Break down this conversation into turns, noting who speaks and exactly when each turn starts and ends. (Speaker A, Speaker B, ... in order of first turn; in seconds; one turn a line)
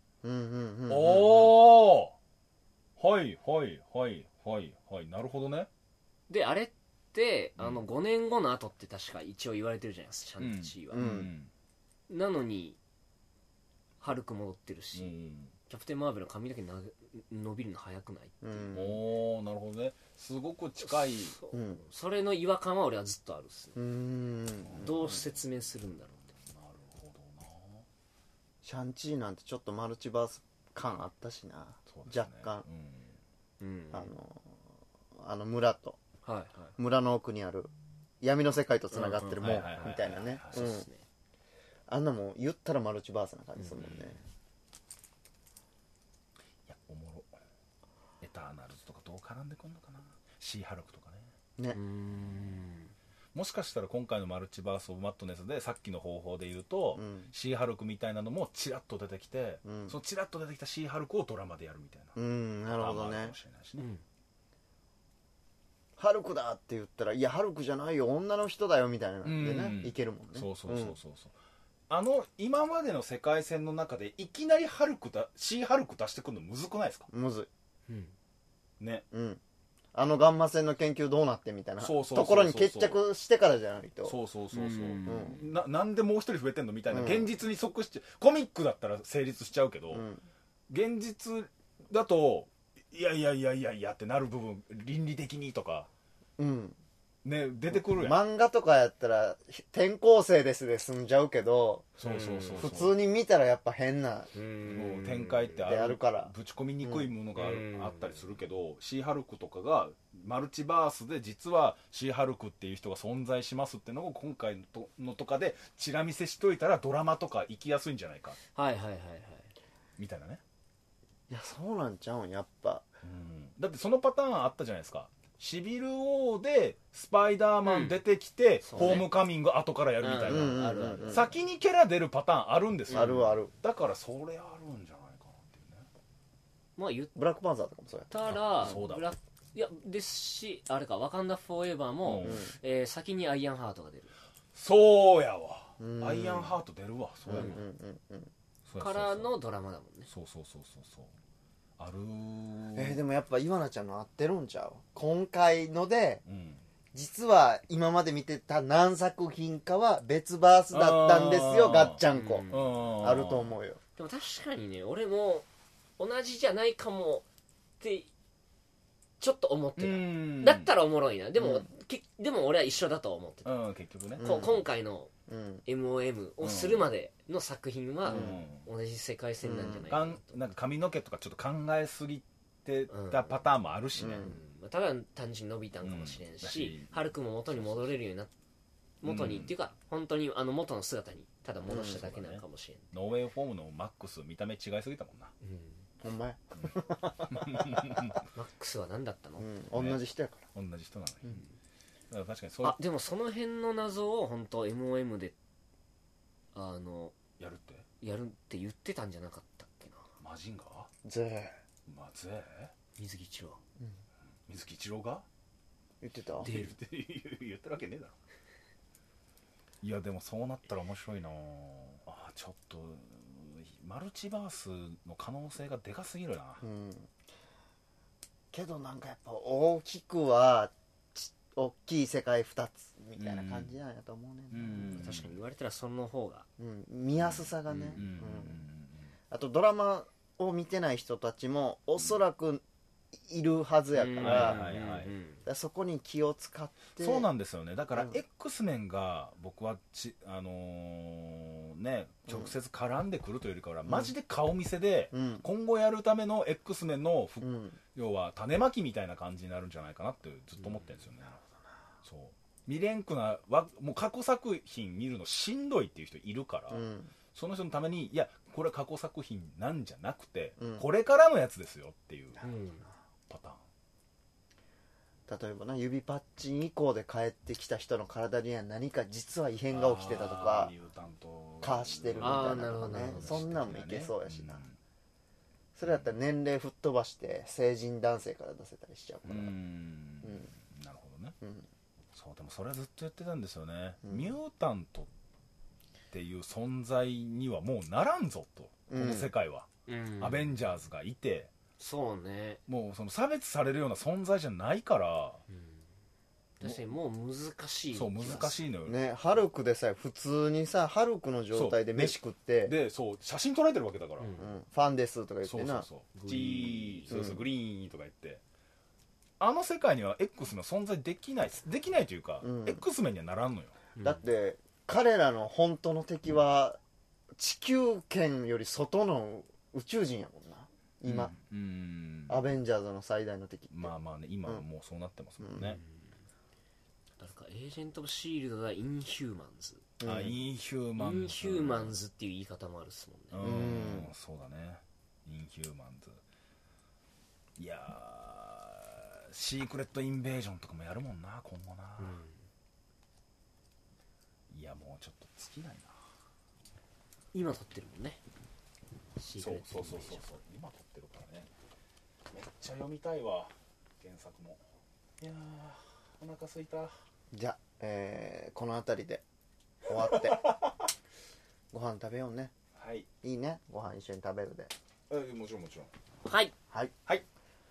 Speaker A: 0.2-1.6
Speaker B: 0.9-2.1
Speaker B: 3.0-5.7
Speaker C: 6.3-11.1
Speaker B: 7.6-7.8
Speaker B: 10.4-11.5
Speaker A: 10.9-11.3
Speaker C: 12.1-12.8
Speaker C: 14.0-15.1
Speaker B: 14.9-15.5
Speaker C: 15.7-18.7
Speaker A: 18.4-19.0
Speaker B: 18.7-21.4
Speaker C: 20.8-23.9
Speaker A: 21.5-21.8
Speaker A: 23.8-25.2
Speaker B: 24.6-25.4
Speaker C: 24.8-26.3
Speaker B: 26.4-27.9
Speaker A: 28.6-32.7
Speaker B: 31.9-33.2
Speaker C: 33.6-34.1
Speaker A: 33.9-34.6
Speaker A: 35.2-36.0
Speaker C: 36.2-36.8
Speaker A: 36.8-37.7
Speaker A: 38.2-40.9
Speaker C: 38.9-39.5
Speaker B: 39.4-40.7
Speaker C: 40.5-41.0
Speaker A: 41.9-44.2
Speaker B: 43.7-44.1
Speaker B: 46.7-47.3
Speaker B: 48.2-51.3
Speaker C: 51.7-52.9
Speaker B: 53.3-63.9
Speaker A: 57.0-57.3
Speaker A: 59.6-60.0
Speaker A: 62.2-63.4
Speaker C: 63.8-64.0
Speaker A: 66.0-71.0
Speaker B: 69.2-71.3
Speaker B: 71.9-77.1
Speaker A: 77.1-77.5
Speaker C: 77.9-78.1
Speaker B: 78.8-79.0
Speaker A: 79.1-79.4
Speaker A: 79.9-84.2
Speaker B: 81.8-83.0
Speaker B: 84.0-90.1
Speaker C: 84.5-85.6
Speaker A: 85.0-85.4
Speaker A: 86.9-87.3
Speaker A: 89.9-90.2
Speaker B: 90.7-95.9
Speaker A: 96.4-96.8
Speaker B: 97.2-98.2
Speaker A: 97.7-102.0
Speaker B: 102.0-103.0
Speaker C: 102.0-102.8
Speaker A: 102.6-104.3
Speaker C: 104.3-105.6
Speaker B: 104.6-118.4
Speaker A: 105.6-107.1
Speaker C: 107.3-108.3
Speaker C: 118.5-119.5
Speaker B: 120.0-120.4
Speaker A: 121.3-122.9
Speaker B: 123.0-135.9
Speaker C: 127.6-128.0
Speaker C: 128.6-129.1
Speaker C: 130.0-131.4
Speaker A: 130.3-131.3
Speaker C: 132.9-133.2
Speaker A: 132.9-133.5
Speaker C: 136.8-137.1
Speaker A: 137.2-138.8
Speaker C: 138.1-144.1
Speaker B: 138.2-139.1
Speaker B: 142.0-142.5
Speaker A: 142.2-142.5
Speaker B: 144.5-147.6
Speaker A: 145.8-146.6
Speaker A: 147.3-148.3
Speaker C: 147.3-147.6
Speaker B: 148.7-149.3
Speaker C: 148.8-150.1
Speaker B: 150.1-151.1
Speaker B: 151.8-153.0
Speaker A: 152.7-156.2
Speaker B: 156.2-156.6
Speaker A: 156.9-163.8
Speaker B: 160.7-163.6
Speaker C: 162.1-162.9
Speaker C: 164.0-165.5
Speaker C: 166.0-167.3
Speaker C: 167.8-168.1
Speaker C: 169.2-173.6
Speaker B: 169.8-170.7
Speaker A: 171.4-171.7
Speaker B: 173.4-174.4
Speaker C: 174.2-175.1
Speaker A: 174.2-174.6
Speaker A: 175.3-175.7
Speaker C: 175.7-180.5
Speaker B: 176.4-176.9
Speaker A: 178.1-178.4
Speaker B: 178.1-178.7
Speaker A: 179.4-179.9
Speaker B: 179.9-184.3
Speaker C: 182.9-183.5
Speaker A: 183.9-184.4
Speaker C: 184.2-188.3
Speaker B: 185.8-187.9
Speaker C: 189.0-193.0
Speaker B: 189.0-189.5
Speaker A: 191.7-192.0
Speaker B: 191.7-195.3
Speaker C: 195.4-195.9
Speaker A: 196.0-198.2
Speaker B: 197.3-198.2
Speaker C: 198.3-199.5
Speaker A: 199.4-200.5
Speaker B: 199.7-200.0
Speaker B: 200.5-201.4
Speaker B: 202.1-202.8
Speaker C: 202.6-205.3
Speaker C: 206.5-207.2
Speaker B: 207.4-207.8
Speaker C: 208.0-210.1
Speaker B: 210.2-210.9
Speaker A: 211.0-211.6
Speaker B: 211.9-212.7
Speaker C: 213.0-213.6
Speaker B: 214.5-215.2
Speaker A: 216.0-216.6
Speaker C: 216.4-216.8
Speaker B: 216.4-218.2
Speaker B: 219.8-226.6
Speaker A: 226.6-227.1
Speaker A: 228.5-235.0
Speaker B: 233.2-233.8
Speaker B: 234.5-235.4
Speaker C: 234.9-236.5
Speaker A: 236.6-238.6
Speaker B: 237.2-239.1
Speaker C: 237.7-238.1
Speaker A: 239.3-242.6
Speaker A: 243.2-244.6
Speaker C: 243.9-245.4
Speaker B: 244.2-245.2
Speaker A: 245.5-247.3
Speaker B: 247.0-261.4
Speaker A: 247.9-248.2
Speaker A: 252.3-252.5
Speaker A: 253.8-254.1
Speaker A: 255.1-255.4
Speaker A: 257.4-257.8
Speaker B: 262.0-272.4
Speaker A: 266.7-267.1
Speaker A: 270.6-270.9
Speaker A: 272.4-272.9
Speaker C: 272.4-272.9
Speaker B: 273.3-273.6
Speaker A: 275.3-280.7
Speaker B: 279.7-284.8
Speaker A: 281.6-284.7
Speaker C: 282.2-283.5
Speaker A: 285.8-289.6
Speaker B: 285.8-286.1
Speaker B: 289.2-291.4
Speaker A: 290.2-290.5
Speaker A: 291.4-291.7
Speaker B: 292.1-295.1
Speaker A: 294.0-294.3
Speaker B: 296.1-299.7
Speaker A: 298.9-299.3
Speaker C: 299.9-300.6
Speaker B: 300.2-301.5
Speaker C: 301.8-302.6
Speaker B: 302.7-305.4
Speaker C: 305.5-305.9
Speaker C: 306.6-308.6
Speaker B: 307.9-309.0
Speaker A: 308.9-312.8
Speaker B: 311.5-314.3
Speaker C: 314.2-314.6
Speaker A: 314.4-315.9
Speaker B: 315.4-318.4
Speaker C: 316.1-317.2
Speaker A: 317.1-317.4
Speaker B: 319.4-323.7
Speaker A: 322.4-322.8
Speaker C: 324.0-324.2
Speaker A: 324.0-326.8
Speaker A: 327.4-331.3
Speaker B: 331.1-332.4
Speaker A: 332.3-333.9
Speaker B: 333.7-335.8
Speaker A: 335.4-335.8
Speaker C: 335.6-336.2
Speaker C: 337.2-339.8
Speaker A: 340.0-340.4
Speaker B: 340.0-341.9
Speaker C: 341.0-343.5
Speaker B: 343.3-346.2
Speaker A: 343.4-344.1
Speaker B: 347.6-352.2
Speaker C: 352.0-352.4
Speaker B: 354.5-355.9
Speaker C: 357.3-358.2
Speaker C: 359.2-360.3
Speaker B: 359.4-361.5
Speaker B: 362.3-364.6
Speaker B: 365.2-366.9
Speaker A: 367.3-369.2
Speaker A: 369.9-370.5
Speaker B: 370.1-370.7
Speaker A: 371.7-372.5
Speaker B: 372.8-373.1
Speaker A: 373.2-374.7
Speaker B: 375.1-375.9
Speaker C: 376.2-376.5